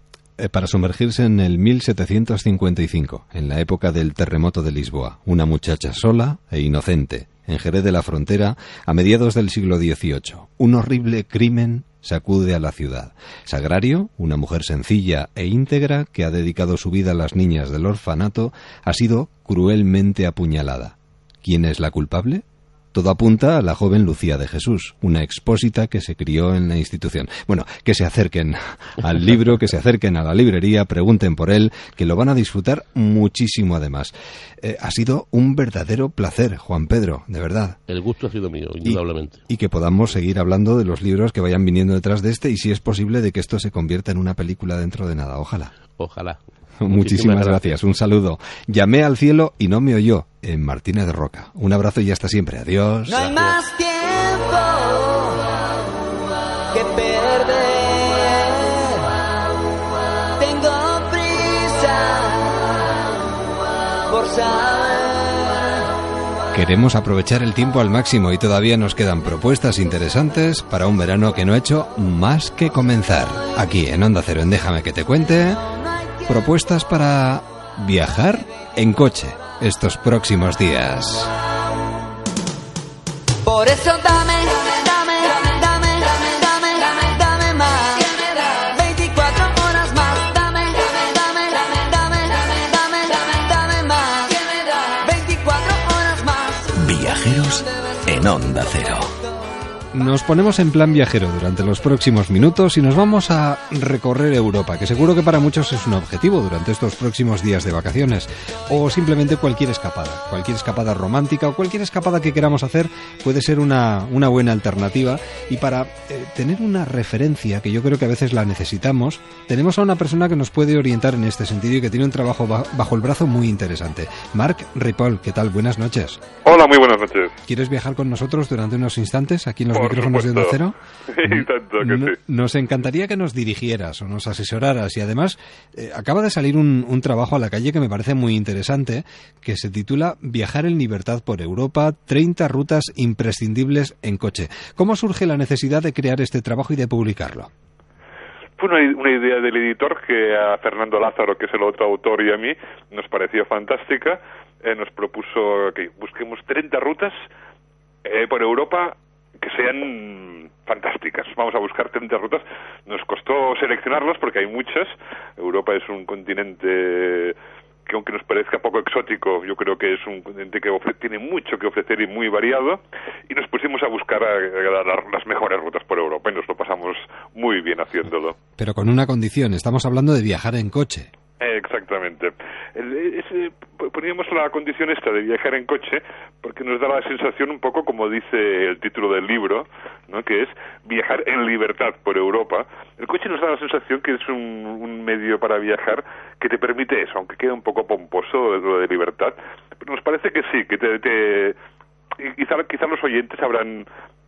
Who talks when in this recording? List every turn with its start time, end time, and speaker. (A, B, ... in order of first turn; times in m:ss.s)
0:00.4-0:37.8 A
0:37.9-0:39.4 B
0:38.8-0:45.7 A
0:46.0-0:47.8 B
0:46.8-0:53.4 A
0:53.1-0:54.6 C
0:53.3-0:53.6 B
0:56.7-0:58.2 C
1:00.4-1:02.1 C
1:04.1-1:05.0 C
1:06.5-1:15.6 A
1:16.2-1:21.3 A
1:23.5-1:27.9 C
1:28.7-1:32.2 C
1:32.9-1:34.2 C
1:35.0-1:36.2 C
1:36.8-1:39.1 D
1:39.9-2:06.2 A
2:06.4-2:07.3 E
2:07.4-2:10.7 A
2:09.7-2:10.6 E
2:11.1-2:12.2 E
2:11.3-2:27.5 A
2:28.6-2:37.3 E
2:38.0-2:47.4 E
2:47.9-2:58.4 E
2:58.6-3:01.1 A
3:01.4-3:21.6 E
3:22.2-3:23.9 E